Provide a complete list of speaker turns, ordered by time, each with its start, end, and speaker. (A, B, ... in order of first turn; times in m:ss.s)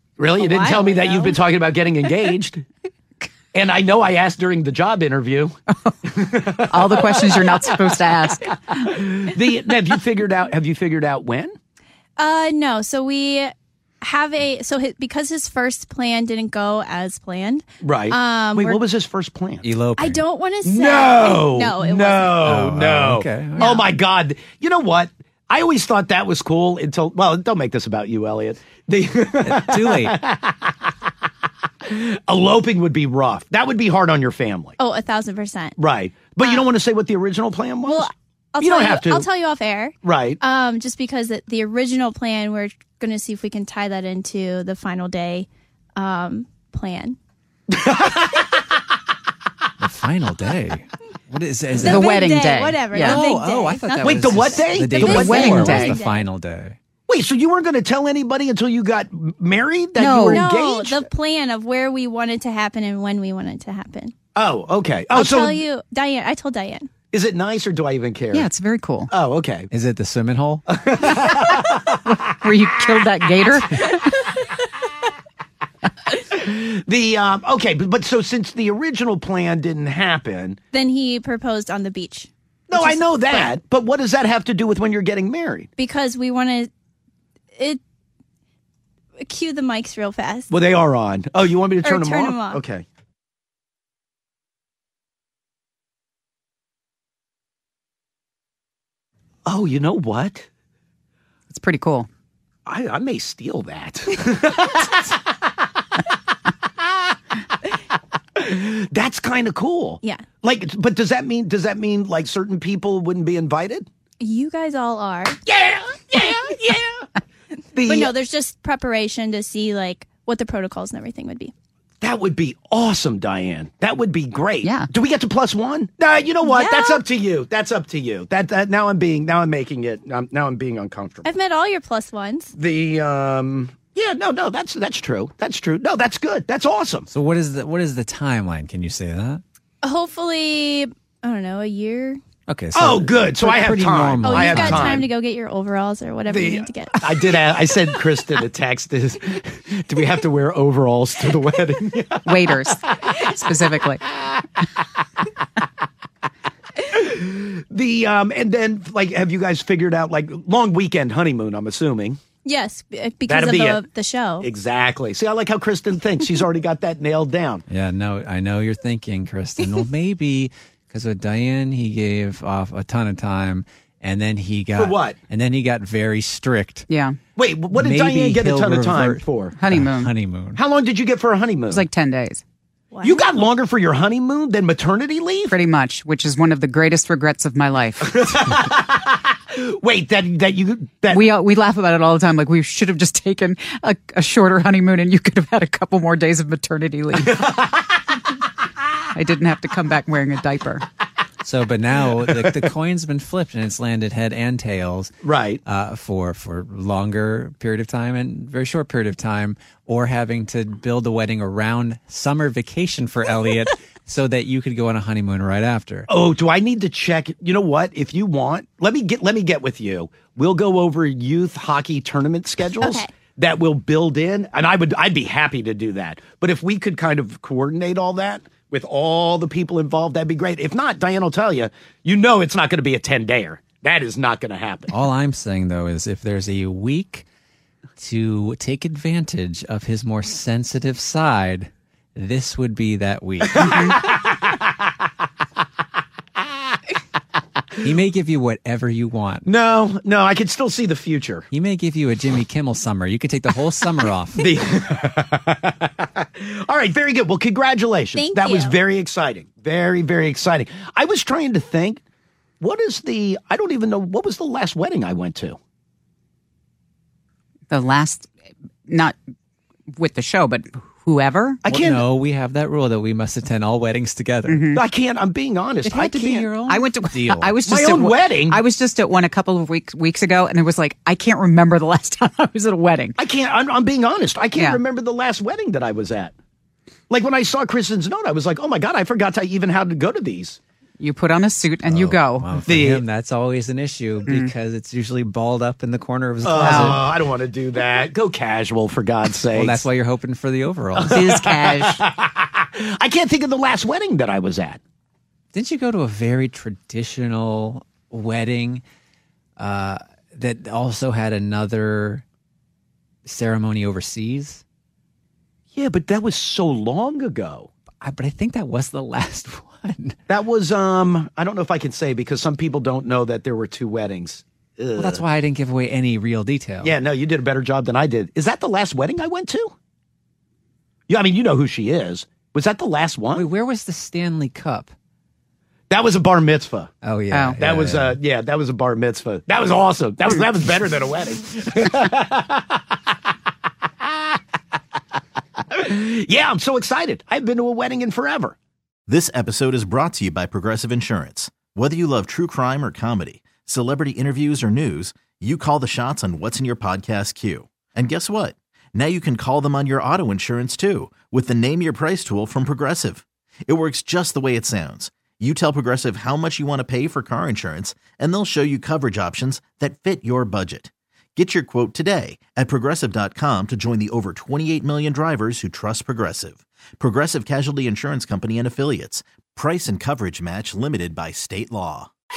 0:00.2-0:02.6 A
0:00.3-0:01.4 B
0:03.5-0:05.6 A
0:05.7-0:08.8 C
0:06.1-0:07.2 A
0:08.8-0:11.6 A
0:12.2-0:18.8 B
0:17.8-0:19.7 A
0:19.6-0:20.2 D
0:20.0-0:22.4 B
0:20.6-0:30.7 A
0:22.4-0:23.8 D
0:23.6-0:23.8 B
0:29.4-0:30.2 D
0:31.9-0:34.8 A
0:34.8-0:35.8 B
0:35.8-0:38.1 A
0:36.4-0:36.6 B
0:37.8-0:47.2 B
0:38.6-0:39.3 A
0:40.0-0:40.4 A
0:47.7-0:48.5 A
0:49.8-0:52.0 D
0:51.7-0:56.3 B
0:51.9-0:53.2 C
0:52.9-0:56.8 D
0:54.0-0:56.0 A
0:54.4-0:55.9 C
0:57.1-1:01.1 A
1:00.0-1:00.5 C
1:00.3-1:04.2 B
1:04.4-1:05.6 A
1:05.1-1:07.0 B
1:07.1-1:08.5 A
1:08.3-1:09.1 C
1:09.1-1:09.7 A
1:09.7-1:10.6 D
1:10.7-1:11.8 A
1:11.0-1:14.3 C
1:13.8-1:14.4 B
1:16.2-1:20.6 A
1:20.7-1:23.5 B
1:22.7-1:25.7 A
1:25.8-1:26.7 B
1:29.2-1:30.5 B
1:30.5-1:32.8 A
1:31.8-1:32.6 B
1:39.5-1:40.5 A
1:41.5-1:42.1 C
1:42.7-1:45.1 A
1:48.4-1:53.9 A
1:50.0-1:50.3 B
1:54.2-1:55.4 B
1:55.5-1:57.1 A
1:57.7-1:58.1 A
1:57.8-2:01.5 B
2:02.0-2:11.3 A
2:04.6-2:04.9 C
2:06.4-2:07.0 B
2:11.2-2:12.5 B
2:12.5-2:17.1 A
2:17.1-2:19.4 D
2:19.8-2:22.2 B
2:22.5-2:25.1 D
2:22.7-2:25.0 A
2:24.2-2:27.5 B
2:26.3-2:32.8 A
2:32.3-2:34.0 C
2:36.8-2:42.2 A
2:42.4-2:44.5 B
2:43.3-2:43.8 A
2:44.4-2:47.6 A
2:47.7-2:56.9 D
2:54.8-2:55.2 A
2:56.9-2:57.2 C
2:57.4-2:59.6 A
2:57.7-3:00.6 D
2:59.6-3:00.1 C
3:00.6-3:01.9 A
3:01.7-3:02.4 C
3:02.9-3:03.2 B
3:03.0-3:05.5 A
3:05.5-3:08.2 C
3:08.0-3:11.3 A
3:11.1-3:17.4 C
3:17.3-3:17.5 A
3:19.1-3:20.9 C
3:21.4-3:25.1 D
3:25.2-3:25.6 A
3:25.6-3:36.1 D
3:36.1-3:54.9 A
3:42.8-3:43.1 B
3:54.9-3:57.2 D
3:58.0-4:03.9 D
4:03.5-4:04.7 A
4:07.8-4:09.5 D
4:09.4-4:11.5 A
4:11.5-4:14.4 D
4:14.4-4:22.0 A
4:18.2-4:18.8 B
4:22.6-4:25.6 A
4:27.7-4:28.3 C
4:28.9-4:29.2 C
4:30.0-4:31.6 C
4:31.6-4:32.0 A
4:31.7-4:34.7 D
4:34.4-4:34.8 C
4:34.7-4:36.5 A
4:35.8-4:37.6 D
4:36.7-4:43.2 C
4:37.6-4:38.6 A
4:43.2-4:46.3 A
4:44.5-4:44.8 C
4:47.1-4:50.6 A
4:51.0-4:52.6 C
4:51.9-4:57.1 D
4:52.7-4:53.0 A
4:56.4-4:59.8 A
4:56.6-4:57.0 C
4:59.5-5:01.3 D
5:01.0-5:04.8 A
5:01.1-5:02.0 C
5:05.5-5:08.8 D
5:09.6-5:12.2 D
5:13.3-5:14.6 D
5:15.7-5:17.7 A
5:18.0-5:20.2 D
5:20.3-5:25.2 A
5:25.0-5:27.0 D
5:26.8-5:29.7 A
5:31.1-5:33.5 A
5:33.3-5:34.9 D
5:35.9-5:36.9 A
5:37.0-5:38.2 D
5:37.3-5:37.6 C
5:37.6-5:42.8 A
5:44.0-5:44.4 A
5:45.7-5:48.6 A
5:49.1-6:22.1 E